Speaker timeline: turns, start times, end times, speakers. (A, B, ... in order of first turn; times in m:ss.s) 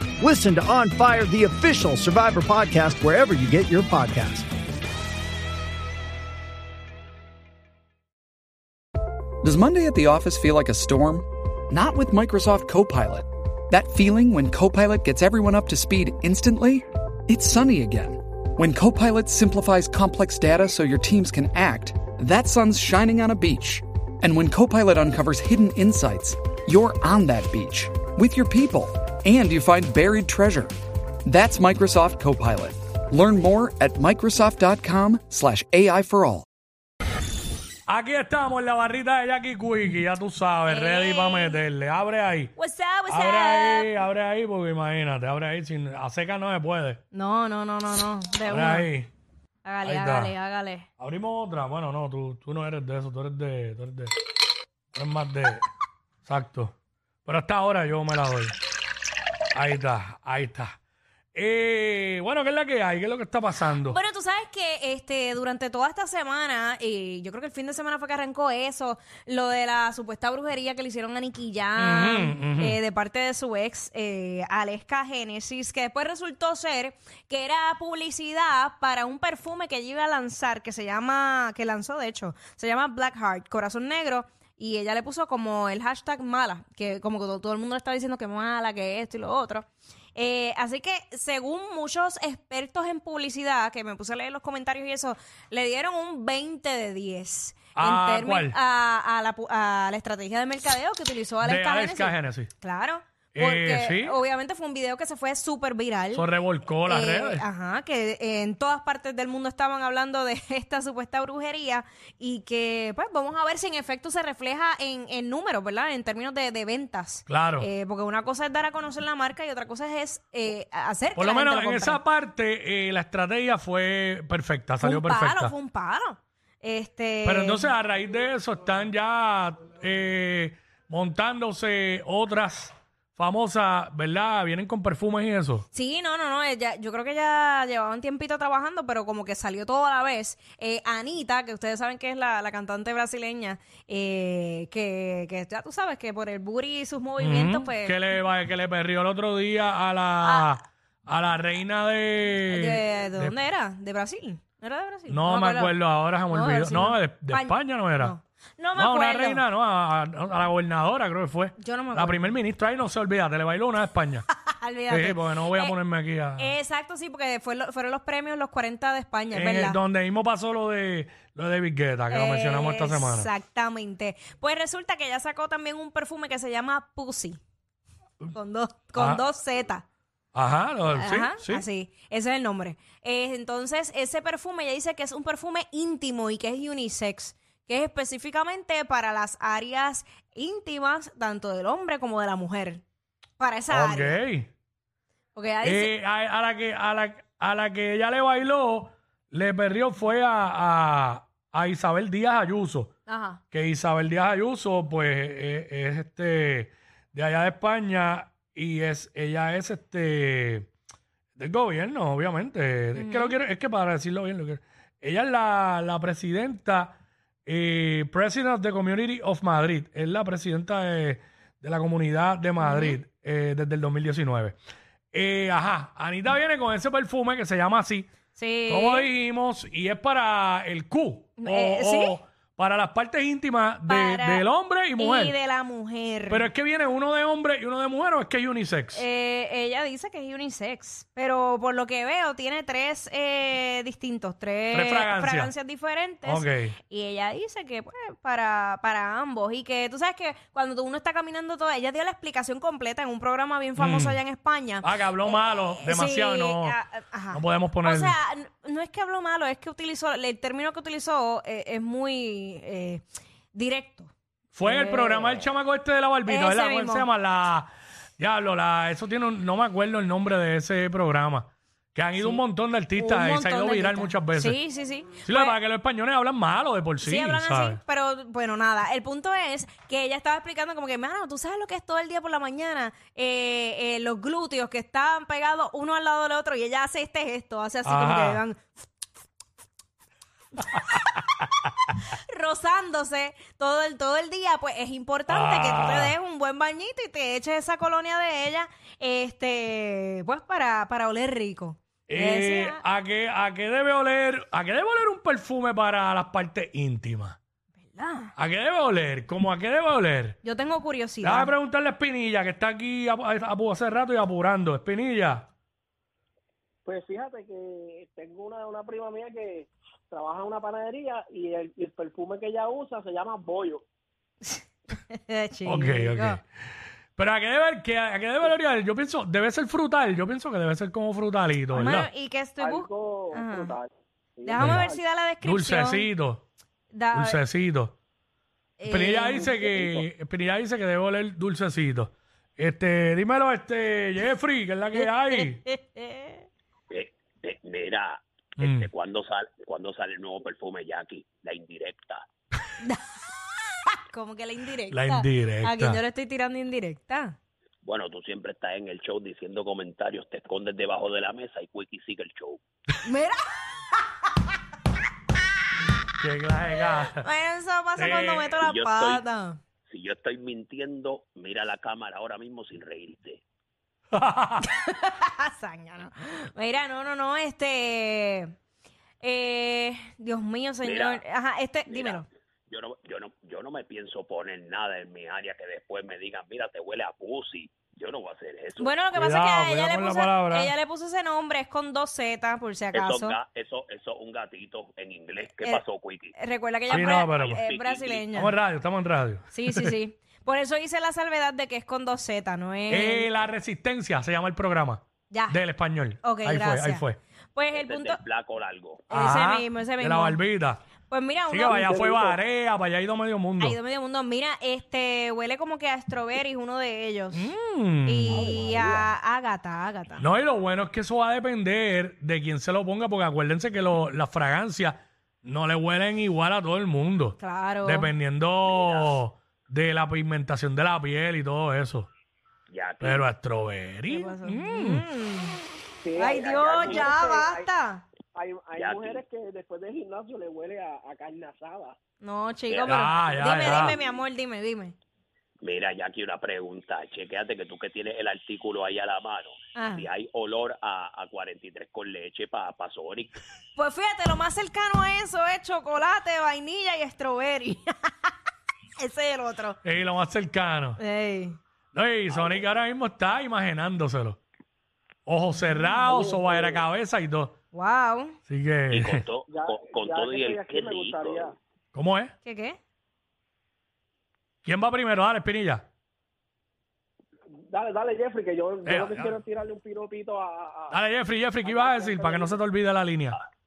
0:00.2-0:04.5 A
0:09.4-0:30.7 B
0:31.2-0:36.4 B
0:37.9-0:42.5 C
0:40.7-0:41.6 D
0:42.6-0:44.0 D
0:43.1-0:47.0 C
0:47.1-0:48.9 D
0:48.5-0:49.1 C
0:49.6-0:50.9 D
0:49.8-0:50.3 C
0:51.0-0:54.1 C
0:55.0-0:55.6 C
0:56.2-0:56.8 C
0:57.2-0:58.6 C
0:59.5-1:00.7 C
1:01.3-1:04.0 C
1:03.8-1:46.3 D
1:11.8-1:12.8 C
1:37.8-1:38.6 C
1:41.4-1:42.5 C
1:43.3-1:44.2 C
1:46.1-1:47.4 C
1:46.8-2:02.0 D
1:57.3-1:57.7 C
2:01.1-2:05.6 C
2:04.8-2:07.7 D
2:07.2-2:15.6 C
2:15.7-2:28.1 D
2:27.2-2:33.4 C
2:30.2-2:30.6 D
2:32.4-2:35.8 D
2:35.1-2:38.1 C
2:36.3-2:39.4 D
2:38.8-2:44.3 C
2:41.6-2:42.4 D
2:44.4-2:45.8 D
2:44.9-2:46.5 C
2:46.4-2:49.8 D
2:49.3-2:53.3 C
2:52.1-2:57.4 D
2:58.3-2:59.8 D
2:59.0-2:59.2 C
3:00.4-3:01.6 C
3:00.9-3:12.8 D
3:13.4-3:14.2 D
3:13.7-3:14.5 C
3:15.4-3:15.9 D
3:15.6-3:22.9 C
3:23.1-3:23.4 D
3:23.5-3:30.7 C
3:31.4-3:44.6 C
3:32.9-3:33.4 D
3:42.6-3:43.0 D
3:45.1-3:48.1 C
3:48.4-3:49.1 D
3:48.7-3:55.3 C
3:51.4-3:52.2 D
3:53.9-3:54.4 D
3:55.0-3:56.5 D
3:56.3-3:59.0 C
3:58.9-4:25.4 D
4:04.7-4:05.5 C
4:06.2-4:06.8 C
4:13.8-4:14.2 C
4:14.8-4:16.8 C
4:17.3-4:18.1 C
4:24.5-4:34.6 C
4:26.2-4:27.1 D
4:32.2-4:32.4 D
4:32.9-4:35.6 D
4:35.2-4:37.8 C
4:37.0-4:48.7 D
4:47.8-4:48.4 C
4:50.7-4:51.0 D
4:51.9-5:02.8 D
4:55.3-4:56.1 C
5:02.1-5:07.4 C
5:07.8-5:08.3 D
5:08.4-5:10.4 C
5:10.4-5:11.5 D
5:11.2-5:15.4 C
5:16.8-5:23.8 E
5:24.4-5:26.4 D
5:25.6-5:26.4 C
5:27.2-5:32.1 C
5:31.7-5:33.8 D
5:32.6-5:35.0 E
5:34.4-5:36.1 D
5:34.6-5:34.9 C
5:35.4-5:36.5 C
5:36.9-5:37.4 D
5:37.1-5:37.9 C
5:38.8-5:39.6 D
5:38.9-5:45.6 C
5:39.4-5:40.1 E
5:45.0-5:46.4 D
5:46.9-5:52.2 F
5:48.6-5:48.9 C
5:52.8-5:53.2 D
5:53.8-5:57.4 D
5:54.9-5:56.0 C
5:57.8-6:02.6 F
6:03.0-6:04.0 D
6:06.2-6:07.2 C
6:07.0-6:09.6 D
6:08.0-6:08.5 C
6:08.6-6:09.2 F
6:09.9-6:13.4 F
6:14.1-6:14.6 C
6:14.6-6:18.5 D
6:19.2-6:22.2 D
6:20.8-6:21.2 F
6:21.9-6:29.0 F
6:28.8-6:33.4 D
6:29.1-6:30.7 C
6:32.9-6:36.3 F
6:36.3-6:38.5 D
6:36.9-6:37.6 C
6:37.4-6:38.3 F
6:38.3-6:39.9 C
6:39.5-6:43.3 D
6:42.9-6:47.2 C
6:45.3-6:45.6 D
6:46.2-6:48.2 D
6:47.7-6:49.1 F
6:49.1-6:50.4 D
6:49.1-6:50.8 C
6:51.1-6:51.8 D
6:51.5-6:53.8 C
6:51.6-6:52.4 E
6:53.6-6:57.5 D
6:57.3-6:58.5 C
6:58.0-7:00.3 D
6:58.3-6:59.1 E
7:00.2-7:12.1 C
7:07.4-7:08.1 D
7:08.6-7:09.2 F
7:12.7-7:13.2 F
7:13.0-7:15.0 C
7:14.1-7:15.6 D
7:16.0-7:17.7 E
7:16.2-7:18.0 D
7:16.5-7:17.1 F
7:18.3-7:22.0 E
7:18.8-7:19.2 F
7:22.2-7:24.9 D
7:22.7-7:23.9 F
7:22.8-7:23.9 C
7:23.8-7:24.2 E
7:25.6-7:33.4 F
7:29.8-7:30.1 D
7:33.8-7:38.3 D
7:39.0-7:39.8 D
7:39.8-7:41.0 C
7:41.0-7:41.6 D
7:41.9-7:44.4 C
7:45.2-7:47.6 C
7:46.0-7:46.8 E
7:47.7-7:48.4 D
7:48.5-7:49.2 C
7:48.9-7:51.5 F
7:49.5-7:51.6 E
7:51.9-7:52.3 C
7:52.4-7:52.8 D
7:54.6-7:55.8 C
7:57.7-8:01.0 E
7:58.8-7:59.4 C
8:00.9-8:03.4 C
8:01.6-8:02.6 E